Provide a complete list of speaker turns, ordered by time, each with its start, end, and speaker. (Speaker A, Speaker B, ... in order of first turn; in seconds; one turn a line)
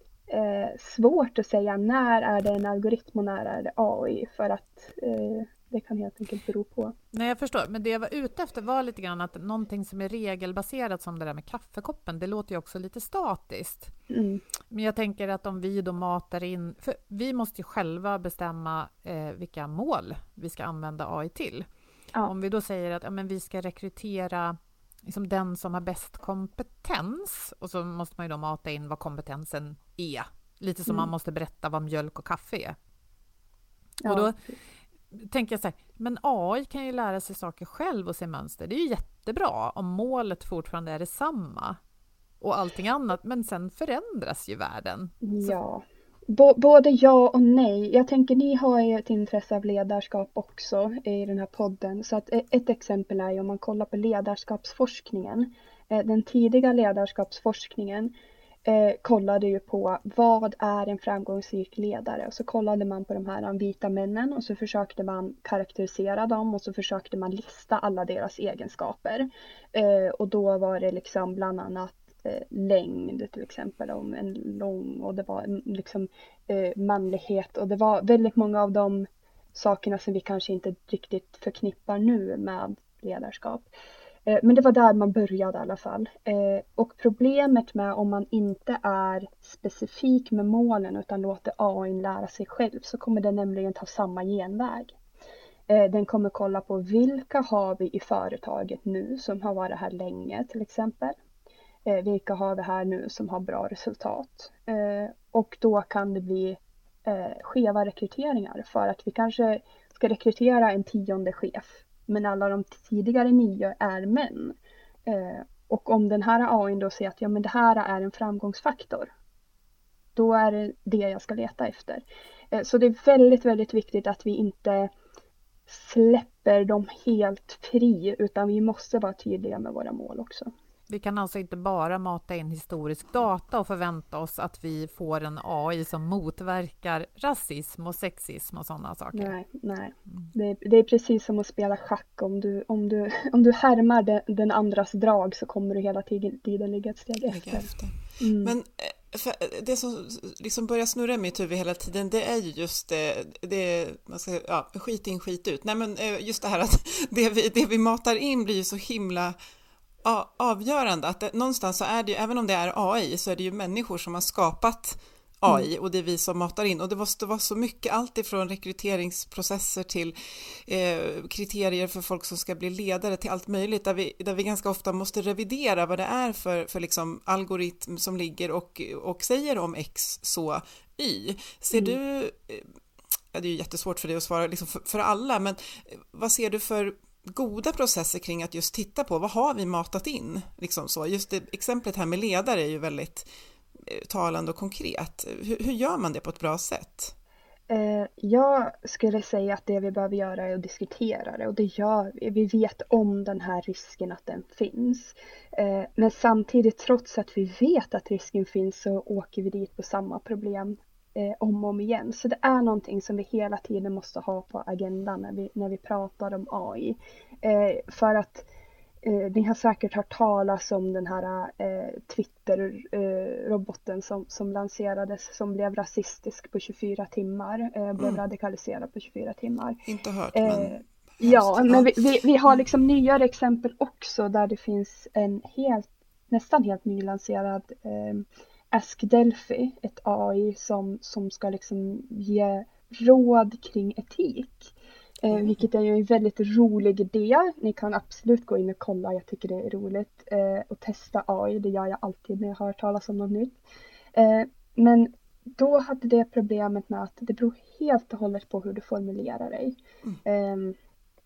Speaker A: 0.3-6.9
Speaker B: 7.1-13.9
Speaker A: 14.1-14.4
Speaker B: 14.7-21.7
Speaker B: 22.2-24.6
Speaker B: 25.1-32.8
Speaker A: 34.0-34.6
Speaker B: 34.0-34.4
Speaker B: 35.1-41.8
Speaker B: 42.4-45.6
Speaker A: 45.2-58.1
Speaker A: 58.7-83.7
Speaker A: 84.3-95.0
Speaker A: 95.7-101.2
Speaker A: 101.9-114.5
Speaker A: 115.1-119.1
Speaker A: 120.2-124.9
Speaker A: 125.7-130.5
Speaker B: 130.9-139.3
Speaker A: 139.1-147.7
Speaker C: 147.3-159.4
Speaker A: 148.2-148.6
Speaker C: 160.0-182.7
Speaker C: 183.3-193.3
Speaker C: 193.8-197.1
Speaker A: 197.7-218.5
Speaker A: 219.0-229.8
Speaker C: 228.0-228.2
Speaker C: 229.9-231.9
Speaker A: 230.3-253.6
Speaker A: 254.2-260.8